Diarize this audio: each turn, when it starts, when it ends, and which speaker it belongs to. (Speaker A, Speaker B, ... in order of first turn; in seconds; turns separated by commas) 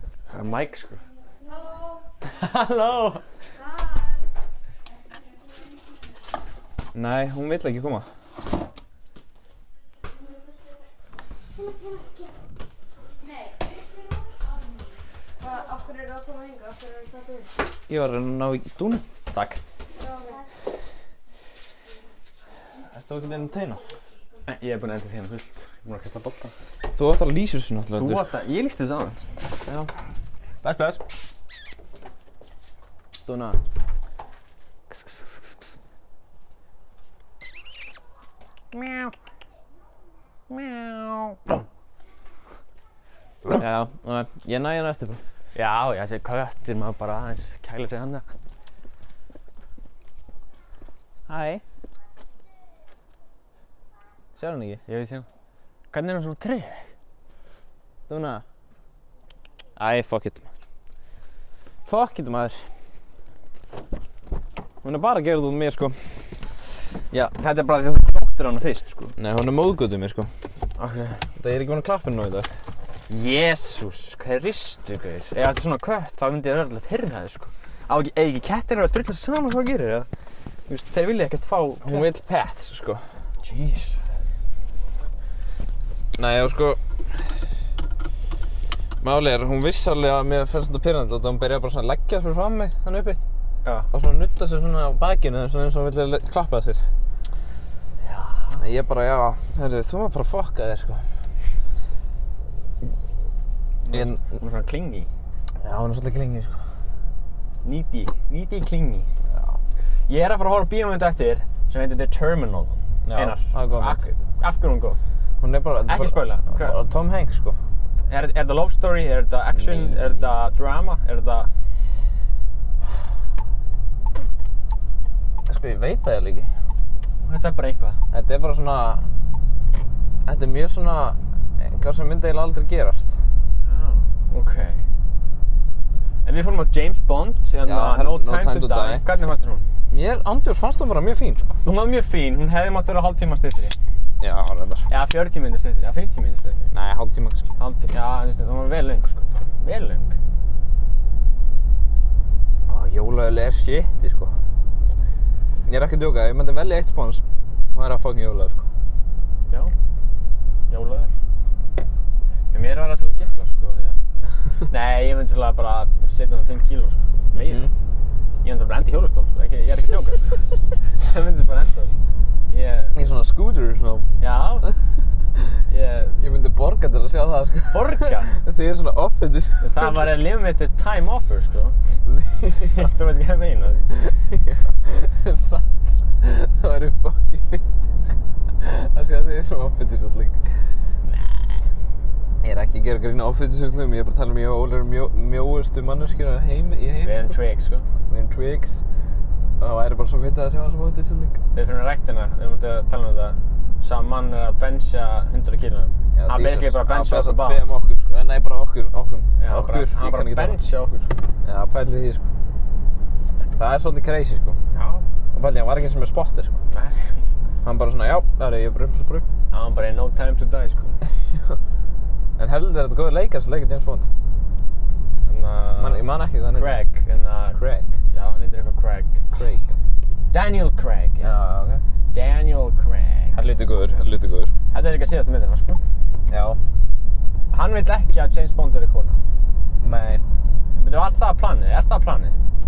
Speaker A: 0.3-1.0, Speaker A: 2.2-3.2, Speaker B: 6.9-8.1, Speaker C: 15.4-17.5, Speaker B: 17.9-19.0, Speaker A: 19.3-19.6, Speaker C: 20.0-20.4, Speaker B: 22.8-23.8, Speaker A: 24.4-26.5, Speaker B: 26.9-28.3, Speaker A: 27.9-29.2, Speaker A: 30.6-31.0, Speaker B: 33.2-33.6, Speaker A: 40.5-41.4, Speaker B: 43.5-45.2, Speaker A: 45.5-48.2, Speaker B: 51.3-51.6, Speaker B: 54.4-54.8, Speaker A: 54.9-55.3, Speaker A: 55.9-56.9, Speaker B: 58.1-58.4, Speaker B: 59.8-60.4, Speaker B: 61.9-62.6, Speaker B: 64.8-66.4, Speaker A: 67.1-69.1, Speaker B: 69.2-70.3, Speaker A: 70.8-71.2, Speaker B: 71.4-72.5, Speaker A: 73.1-80.1, Speaker A: 80.7-82.1, Speaker B: 81.8-83.0, Speaker A: 83.4-84.0, Speaker B: 86.2-86.8, Speaker B: 89.0-93.2, Speaker B: 93.9-96.8, Speaker A: 98.0-98.6, Speaker B: 98.6-101.0, Speaker A: 103.8-105.1, Speaker B: 103.9-104.2, Speaker B: 105.6-106.6, Speaker A: 107.6-109.1, Speaker B: 109.3-109.6, Speaker A: 110.1-115.0, Speaker B: 113.0-114.0, Speaker B: 115.4-117.6, Speaker A: 115.9-116.8, Speaker A: 118.1-121.5, Speaker B: 119.5-120.4, Speaker B: 125.5-126.5, Speaker A: 127.2-128.0, Speaker B: 128.1-129.1, Speaker B: 130.2-133.2, Speaker A: 133.7-134.8, Speaker A: 136.2-139.6, Speaker B: 137.6-139.0, Speaker B: 139.9-141.6, Speaker A: 141.6-143.8, Speaker B: 144.2-144.9, Speaker A: 144.9-146.7, Speaker B: 146.7-147.5, Speaker A: 147.6-150.2, Speaker B: 152.7-154.3, Speaker B: 155.7-158.7, Speaker A: 160.7-161.1, Speaker A: 162.5-167.7, Speaker B: 167.3-167.7, Speaker A: 168.4-171.9, Speaker A: 172.5-173.2, Speaker B: 172.9-174.1, Speaker A: 174.2-174.7, Speaker A: 175.7-176.2, Speaker B: 176.2-180.1, Speaker A: 177.7-178.3, Speaker A: 179.6-181.8, Speaker B: 182.1-182.9, Speaker A: 182.6-183.9, Speaker B: 183.9-190.5, Speaker A: 191.0-191.7, Speaker B: 192.4-197.4, Speaker A: 197.0-197.9, Speaker B: 198.1-198.8, Speaker B: 199.6-201.4, Speaker A: 201.5-207.6, Speaker B: 206.1-210.6, Speaker A: 209.4-211.1, Speaker B: 211.4-212.3, Speaker B: 213.5-214.6, Speaker A: 214.7-215.1, Speaker B: 215.3-216.6, Speaker A: 216.7-217.2, Speaker B: 217.6-219.3, Speaker A: 219.5-221.0, Speaker B: 221.3-221.6, Speaker B: 222.4-224.1, Speaker A: 225.2-227.6, Speaker B: 225.8-226.8, Speaker B: 227.6-227.9, Speaker A: 228.1-229.2, Speaker B: 229.3-229.7, Speaker A: 230.3-231.3, Speaker B: 231.2-231.8, Speaker A: 232.1-233.4, Speaker B: 233.3-234.5, Speaker A: 234.7-235.8, Speaker B: 236.3-236.6, Speaker A: 237.5-239.2, Speaker B: 239.8-240.2, Speaker A: 240.7-242.4